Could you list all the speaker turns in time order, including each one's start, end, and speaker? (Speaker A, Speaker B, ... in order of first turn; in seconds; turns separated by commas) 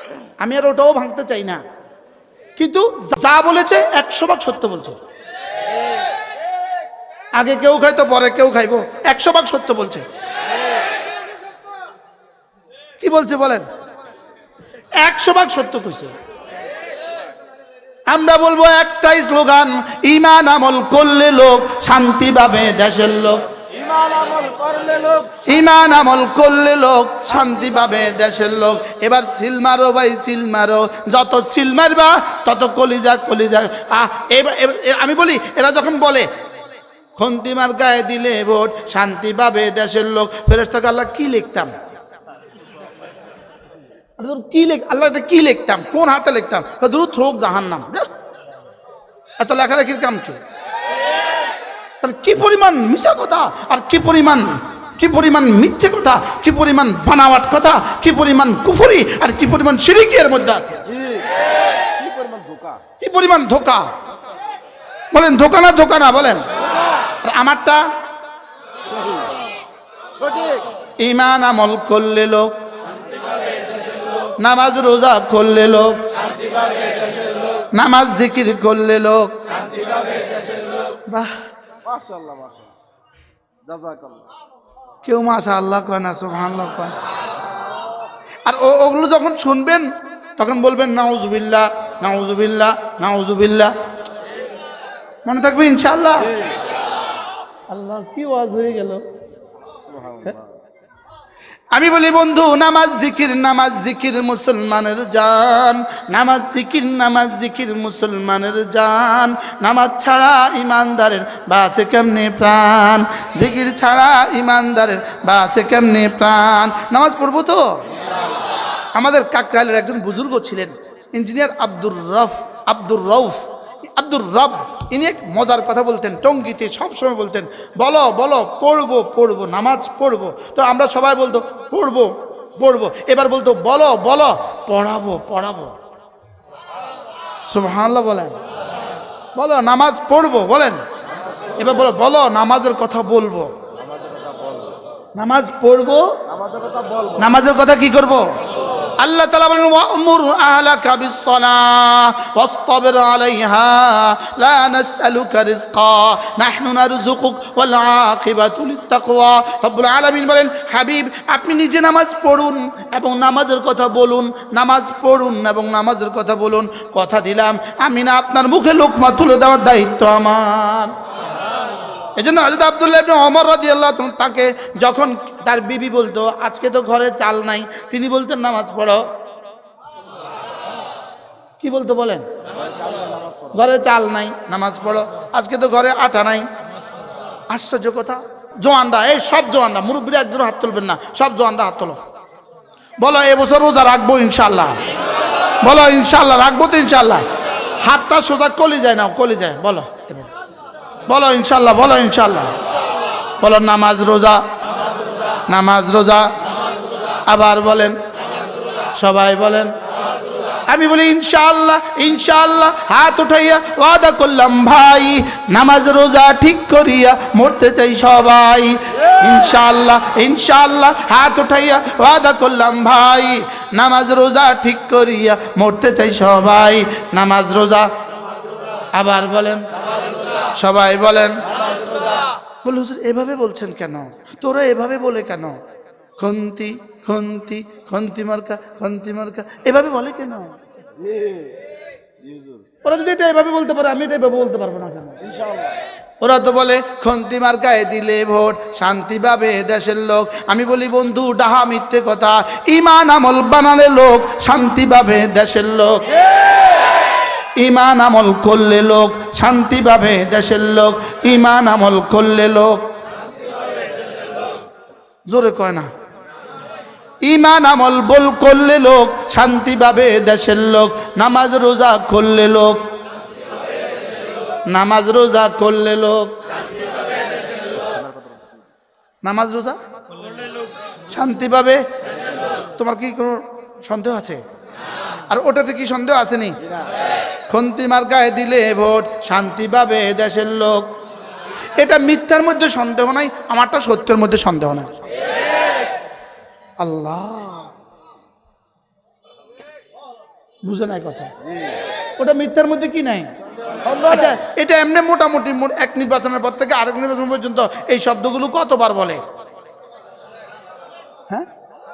Speaker A: 0.4-1.6, Speaker A: 2.6-5.0, Speaker A: 7.3-10.1, Speaker A: 13.0-13.6, Speaker A: 15.0-16.1, Speaker A: 18.1-23.5, Speaker B: 23.7-25.4, Speaker A: 25.4-36.3, Speaker A: 37.2-41.7, Speaker A: 44.2-48.1, Speaker A: 49.4-50.4, Speaker A: 52.0-60.8, Speaker B: 60.9-61.3, Speaker B: 61.8-62.8, Speaker A: 63.0-63.9, Speaker A: 65.1-66.5, Speaker A: 67.2-67.9, Speaker B: 68.9-69.2, Speaker B: 70.2-70.7, Speaker A: 71.0-72.6, Speaker A: 74.4-76.1, Speaker A: 77.7-79.5, Speaker A: 81.1-81.3, Speaker B: 81.8-82.7, Speaker B: 83.6-84.2, Speaker A: 85.0-86.9, Speaker A: 88.4-93.7, Speaker A: 95.2-96.3, Speaker A: 97.7-99.0, Speaker B: 99.8-100.5, Speaker A: 101.7-117.8, Speaker A: 118.9-135.7, Speaker A: 137.5-138.4, Speaker A: 139.3-140.8, Speaker A: 141.6-143.5, Speaker B: 143.8-144.8, Speaker A: 145.2-146.2, Speaker B: 146.3-147.2, Speaker A: 147.2-148.3, Speaker A: 149.0-170.9, Speaker A: 172.2-179.1, Speaker A: 181.6-182.3, Speaker B: 182.7-183.5, Speaker A: 183.5-186.5, Speaker A: 187.5-192.0, Speaker A: 193.0-194.8, Speaker A: 195.6-197.3, Speaker A: 197.8-200.3, Speaker A: 201.1-202.6, Speaker A: 203.4-204.4, Speaker A: 205.5-206.3, Speaker A: 207.2-208.0, Speaker A: 208.9-209.7, Speaker A: 210.7-227.9, Speaker A: 228.9-229.7, Speaker A: 230.5-231.4, Speaker A: 232.6-235.6, Speaker A: 236.2-240.6, Speaker B: 241.0-241.6, Speaker B: 242.2-242.6, Speaker A: 242.8-245.2, Speaker B: 245.2-245.8, Speaker A: 246.2-256.1, Speaker A: 257.6-262.9, Speaker A: 265.3-265.9, Speaker A: 267.2-272.8, Speaker A: 274.7-276.4, Speaker B: 277.8-278.6, Speaker A: 279.2-279.8, Speaker A: 281.1-281.8, Speaker A: 282.8-284.4, Speaker A: 285.3-286.6, Speaker A: 287.5-290.9, Speaker A: 291.8-294.9, Speaker A: 296.8-297.7, Speaker A: 300.6-301.3, Speaker A: 302.2-303.3, Speaker B: 303.8-304.3, Speaker A: 304.1-309.2